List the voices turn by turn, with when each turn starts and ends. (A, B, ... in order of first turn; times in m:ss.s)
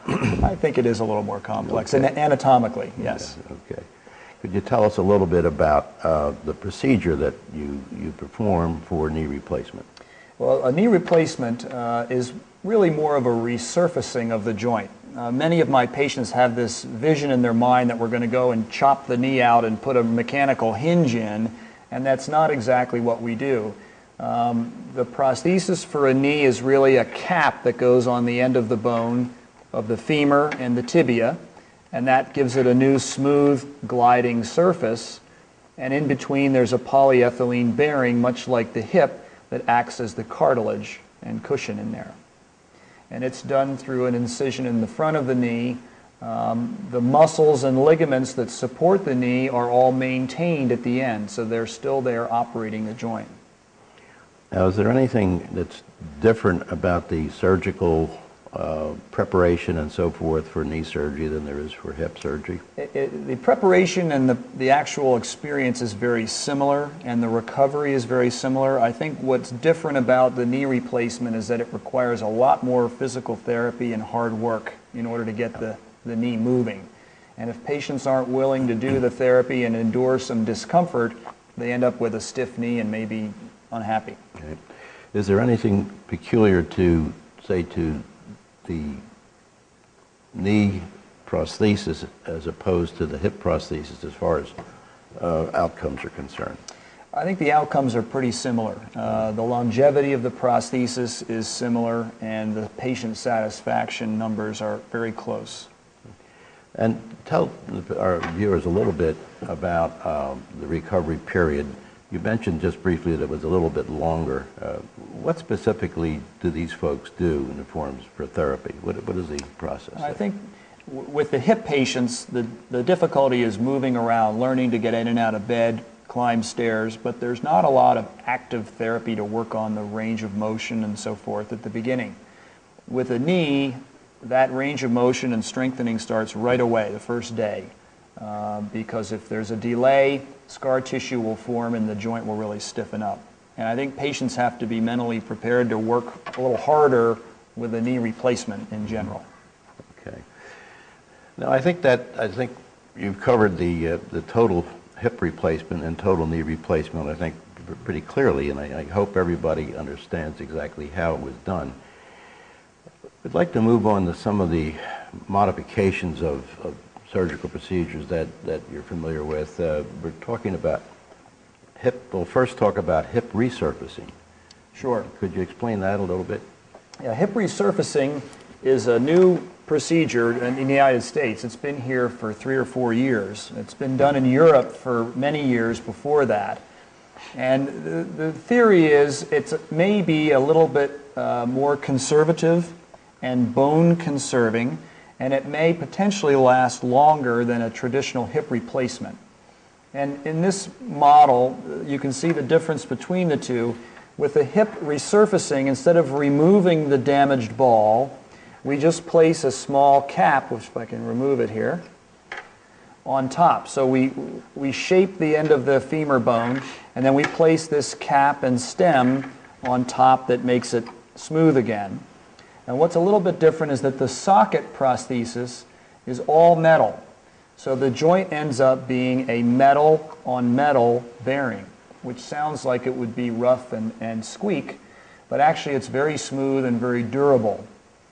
0:00.4-0:03.4 A
0:03.2-0:03.9 B
0:04.4-0:09.9 B
0:10.4-0:31.4 A
0:31.9-0:35.2 A
0:35.8-0:42.2 A
0:43.1-0:53.3 A
0:54.5-1:02.6 B
1:02.8-1:24.2 A
1:25.1-1:28.0 B
1:28.6-1:29.0 B
1:30.3-1:34.6 B
1:35.2-1:36.6 B
1:37.1-1:45.7 A
1:46.8-2:00.2 B
2:00.0-2:12.2 A
2:12.9-2:29.2 A
2:30.0-2:30.3 B
2:31.4-2:41.8 B
2:43.2-2:50.8 B
2:51.8-2:54.1 B
2:54.8-2:55.1 A
2:55.1-2:56.4 B
2:57.0-3:06.6 A
3:07.3-3:19.2 A
3:19.9-3:31.8 A
3:33.0-3:42.0 A
3:42.7-3:47.0 A
3:47.6-3:57.7 A